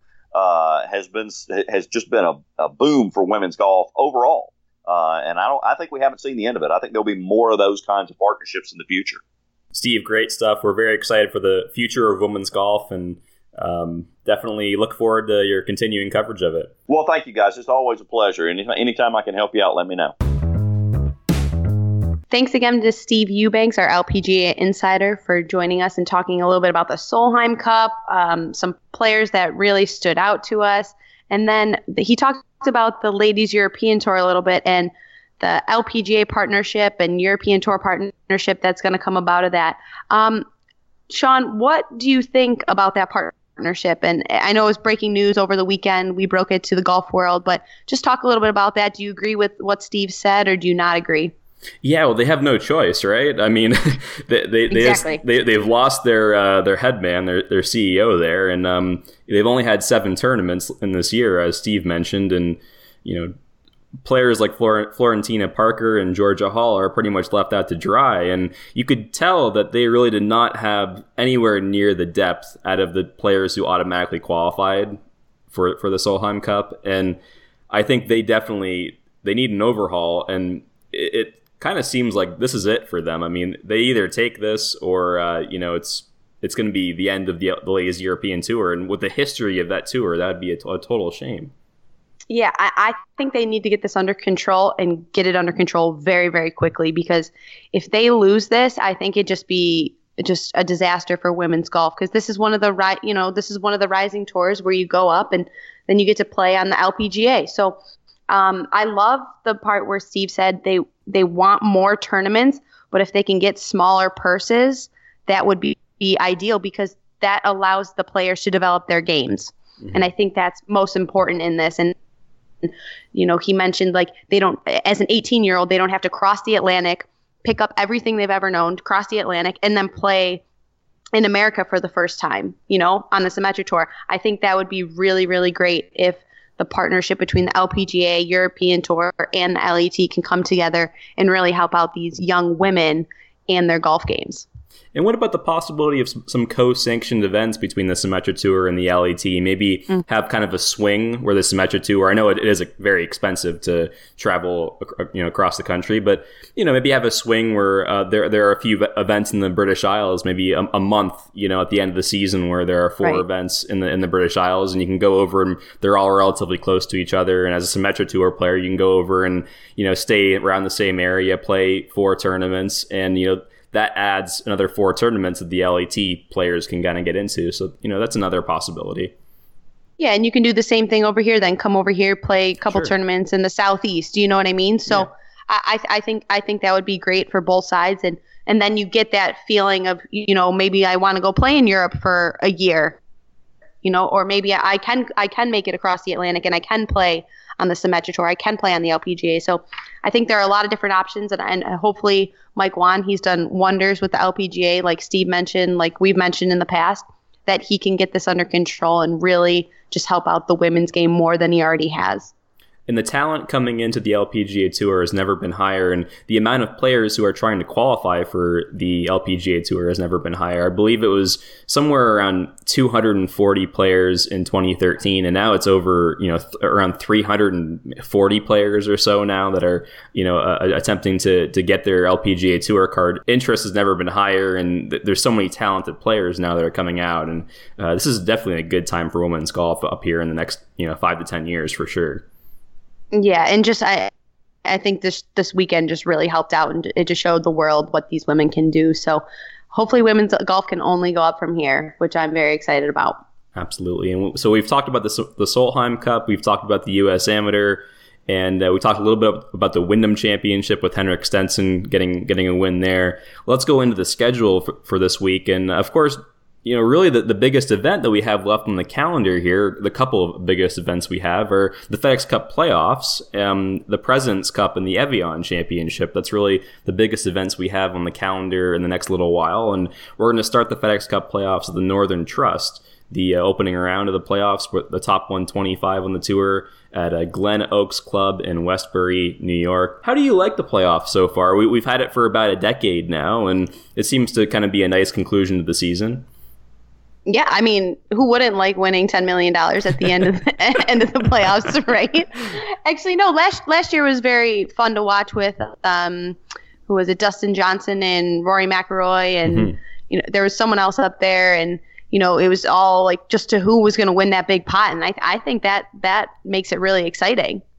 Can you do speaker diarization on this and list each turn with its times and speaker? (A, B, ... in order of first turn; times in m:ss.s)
0:00.3-0:09.2 A
0:09.7-0:16.7 B
0:16.9-0:20.1 A
0:22.3-0:40.4 C
0:41.1-0:51.3 C
0:51.8-1:03.3 B
0:54.7-0:55.2 C
1:04.0-1:15.0 B
1:15.5-1:17.2 B
1:17.7-1:31.5 B
1:32.3-1:47.8 C
1:48.3-2:02.0 C
2:02.6-2:10.4 C
2:11.2-2:24.4 C
2:24.9-2:59.1 B
3:00.0-3:13.0 C
3:13.8-3:32.3 C
3:32.9-4:02.2 B
4:03.1-4:04.1 C
4:04.7-4:13.2 C
4:13.6-4:56.3 B
4:57.3-5:17.6 C
5:09.5-5:09.8 B